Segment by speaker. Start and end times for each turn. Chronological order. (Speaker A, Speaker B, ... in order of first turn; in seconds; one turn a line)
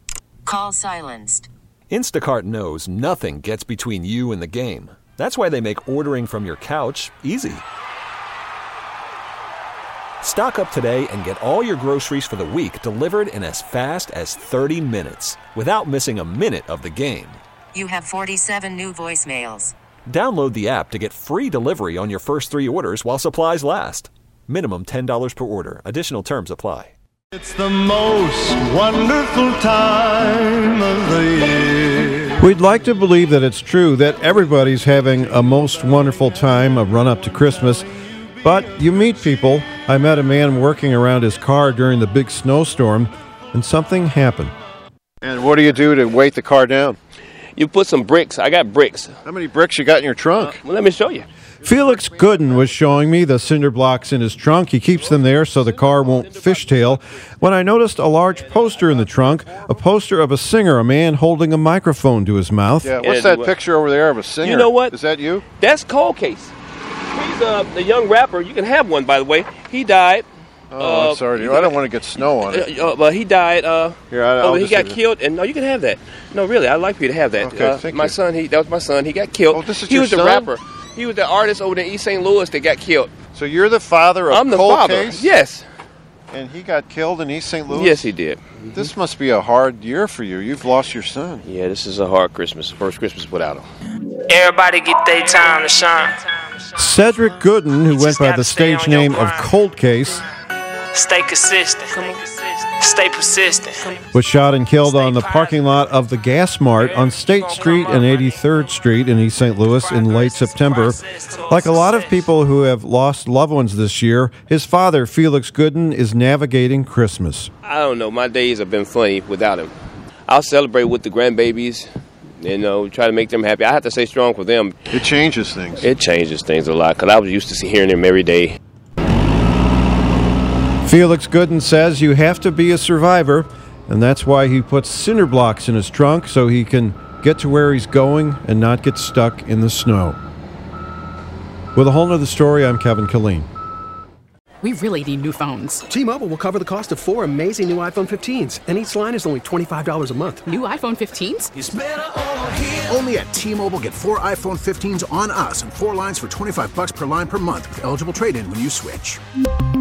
Speaker A: 0.5-1.5
Speaker B: 1.9-7.6
Speaker B: 10.2-17.4
Speaker A: 17.7-19.7
Speaker B: 20.1-26.9
Speaker C: 27.4-32.3
Speaker D: 32.4-37.9
Speaker D: 38.4-44.5
Speaker C: 45.2-47.0
Speaker E: 47.6-49.1
Speaker C: 49.3-50.6
Speaker E: 50.4-51.3
Speaker D: 51.6-63.0
Speaker E: 55.7-57.0
Speaker C: 62.8-65.4
Speaker E: 63.0-63.6
Speaker E: 64.4-65.0
Speaker E: 65.5-66.5
Speaker E: 67.1-70.3
Speaker C: 70.7-72.7
Speaker E: 70.8-83.1
Speaker C: 74.1-75.0
Speaker C: 77.4-78.2
Speaker C: 79.5-80.5
Speaker C: 83.4-85.3
Speaker E: 84.3-85.6
Speaker D: 86.3-87.4
Speaker C: 86.3-88.1
Speaker E: 87.7-88.4
Speaker C: 88.8-91.4
Speaker D: 88.8-90.2
Speaker D: 91.1-91.4
Speaker E: 91.5-93.7
Speaker F: 94.3-96.2
Speaker D: 96.8-100.2
Speaker F: 97.9-99.5
Speaker F: 100.9-104.0
Speaker D: 104.1-117.5
Speaker F: 104.8-105.6
Speaker F: 106.8-108.5
Speaker F: 109.7-112.2
Speaker E: 117.6-119.7
Speaker E: 120.3-124.8
Speaker C: 124.9-125.8
Speaker E: 125.8-128.6
Speaker D: 130.8-140.2
Speaker D: 141.8-143.5
Speaker G: 144.6-145.8
Speaker H: 145.9-150.4
Speaker G: 150.4-151.5
Speaker I: 151.6-159.2